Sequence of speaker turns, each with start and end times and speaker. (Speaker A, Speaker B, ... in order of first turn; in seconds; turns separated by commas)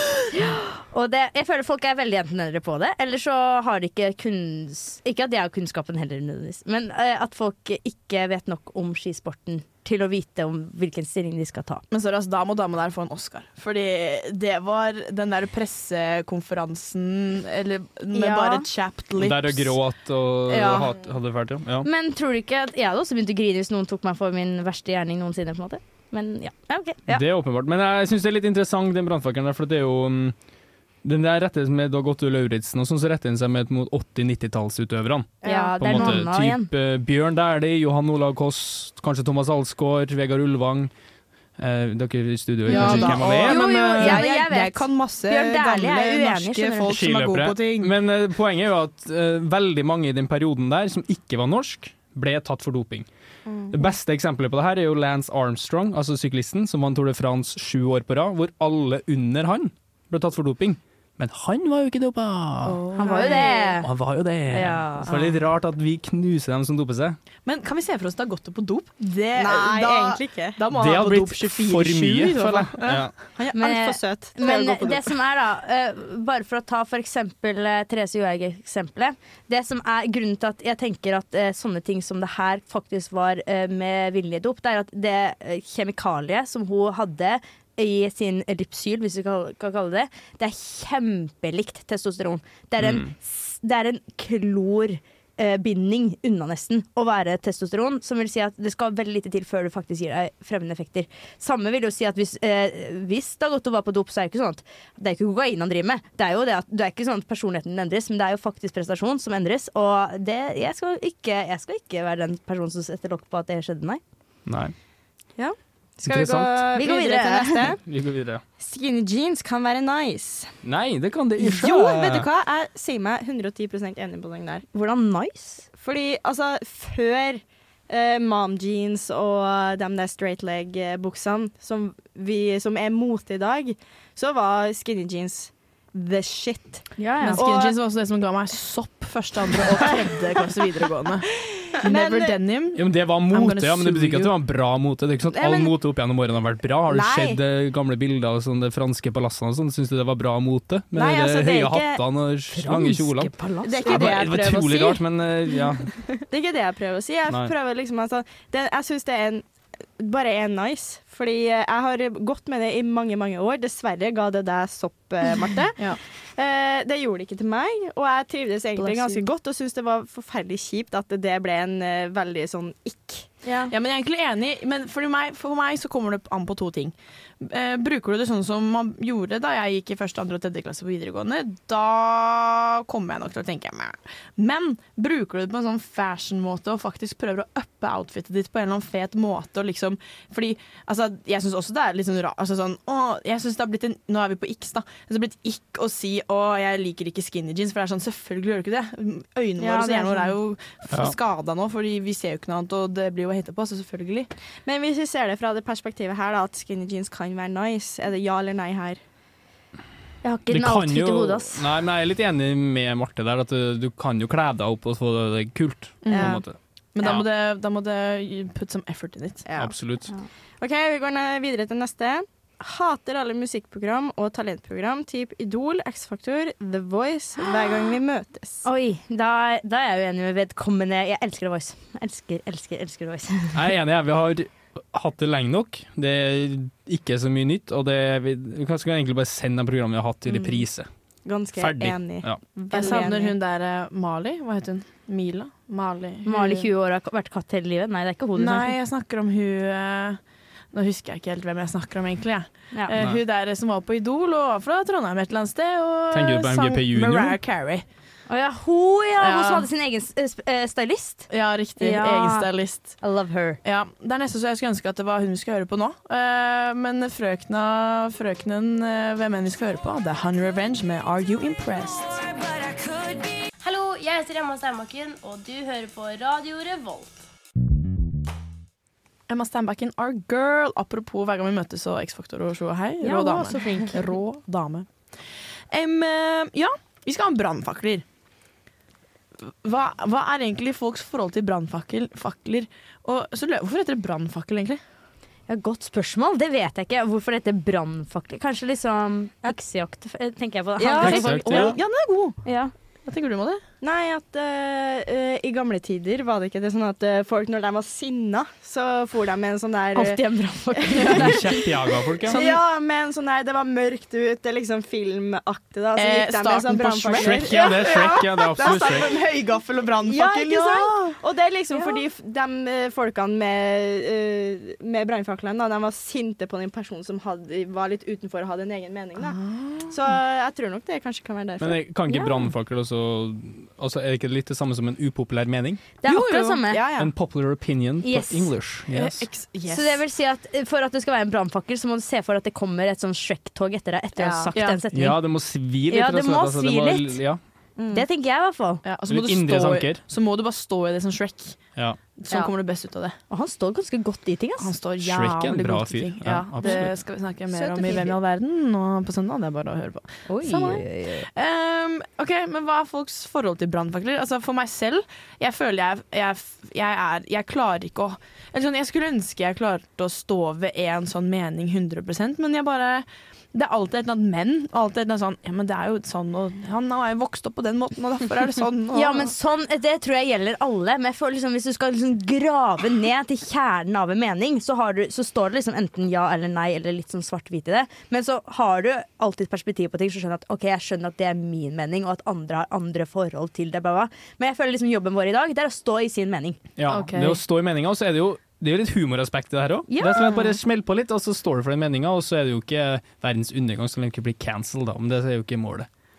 Speaker A: 0.3-11.8, Speaker B: 11.9-19.8, Speaker A: 18.1-18.6, Speaker C: 19.2-21.9, Speaker B: 20.5-21.0, Speaker A: 21.8-27.2, Speaker C: 27.1-30.3, Speaker C: 31.0-40.9, Speaker D: 35.4-36.1, Speaker A: 35.4-36.7, Speaker C: 41.6-44.2, Speaker B: 42.7-48.0, Speaker A: 42.7-46.9, Speaker C: 46.9-53.0, Speaker D: 53.5-53.7, Speaker C: 53.7-62.8, Speaker B: 62.6-63.5, Speaker A: 63.0-63.9, Speaker D: 63.0-63.8, Speaker C: 63.8-67.2, Speaker A: 64.5-65.1, Speaker B: 65.0-65.4, Speaker B: 67.4-73.0, Speaker D: 69.3-70.6, Speaker C: 70.7-73.1, Speaker D: 73.3-75.1, Speaker A: 73.5-114.0, Speaker C: 92.8-93.1, Speaker C: 114.5-114.7, Speaker D: 115.4-117.8, Speaker C: 116.0-116.7, Speaker A: 116.7-117.7, Speaker C: 117.8-118.4, Speaker D: 118.6-120.5, Speaker C: 120.6-122.3, Speaker D: 121.4-124.6, Speaker A: 124.7-125.7, Speaker D: 125.8-137.7, Speaker A: 137.0-137.4, Speaker B: 137.3-144.3, Speaker D: 141.8-142.4, Speaker C: 142.8-155.9, Speaker D: 145.3-145.7, Speaker D: 146.9-147.4, Speaker D: 150.9-152.0, Speaker A: 152.5-154.1, Speaker D: 153.6-159.4, Speaker D: 160.0-173.4, Speaker A: 168.8-169.2, Speaker B: 173.7-204.3, Speaker D: 199.6-200.3, Speaker D: 204.6-209.0, Speaker A: 210.2-211.6, Speaker C: 210.5-217.2, Speaker B: 216.0-216.4, Speaker D: 216.1-216.4, Speaker B: 216.9-219.4, Speaker D: 219.4-219.7, Speaker C: 219.6-220.1, Speaker D: 220.6-228.6, Speaker A: 228.6-233.6, Speaker C: 233.5-240.9, Speaker D: 241.2-243.3, Speaker C: 241.6-242.4, Speaker B: 242.7-246.7, Speaker A: 246.2-248.7, Speaker B: 248.3-250.2, Speaker B: 250.7-257.8, Speaker A: 252.7-253.0, Speaker C: 256.1-257.4, Speaker A: 258.3-263.6, Speaker B: 259.2-259.7, Speaker B: 261.3-262.9, Speaker B: 263.6-272.2, Speaker E: 273.7-277.0, Speaker B: 279.3-284.9, Speaker A: 283.0-284.0, Speaker B: 285.7-288.0, Speaker B: 289.5-294.8, Speaker A: 295.5-301.7, Speaker D: 300.8-301.7, Speaker B: 300.9-302.4, Speaker C: 301.0-301.8, Speaker A: 302.4-302.7, Speaker B: 303.0-303.6, Speaker D: 303.8-310.2, Speaker A: 309.9-311.4, Speaker D: 310.8-311.2, Speaker B: 310.9-311.4, Speaker C: 311.1-312.4, Speaker B: 312.2-312.6, Speaker D: 312.3-319.1, Speaker B: 315.9-321.2, Speaker C: 317.1-319.1, Speaker D: 320.0-329.4, Speaker B: 321.7-322.0, Speaker B: 329.2-330.2, Speaker D: 329.9-331.8, Speaker C: 331.6-335.9, Speaker A: 336.0-336.8, Speaker D: 336.1-337.1, Speaker B: 336.1-336.6, Speaker C: 337.0-339.2, Speaker A: 338.0-338.5, Speaker B: 338.9-340.0, Speaker A: 339.7-345.2, Speaker D: 344.2-344.5, Speaker B: 344.5-344.8, Speaker C: 344.9-347.4, Speaker A: 345.9-347.2, Speaker D: 347.8-348.0, Speaker A: 347.9-348.8, Speaker B: 348.8-351.6, Speaker C: 349.1-350.0, Speaker B: 352.2-353.1, Speaker A: 353.3-354.7, Speaker B: 354.6-379.3, Speaker C: 355.0-356.9, Speaker A: 357.6-358.0, Speaker A: 360.3-361.3, Speaker A: 378.9-396.6, Speaker C: 396.8-405.9, Speaker B: 396.9-397.4, Speaker A: 399.9-400.5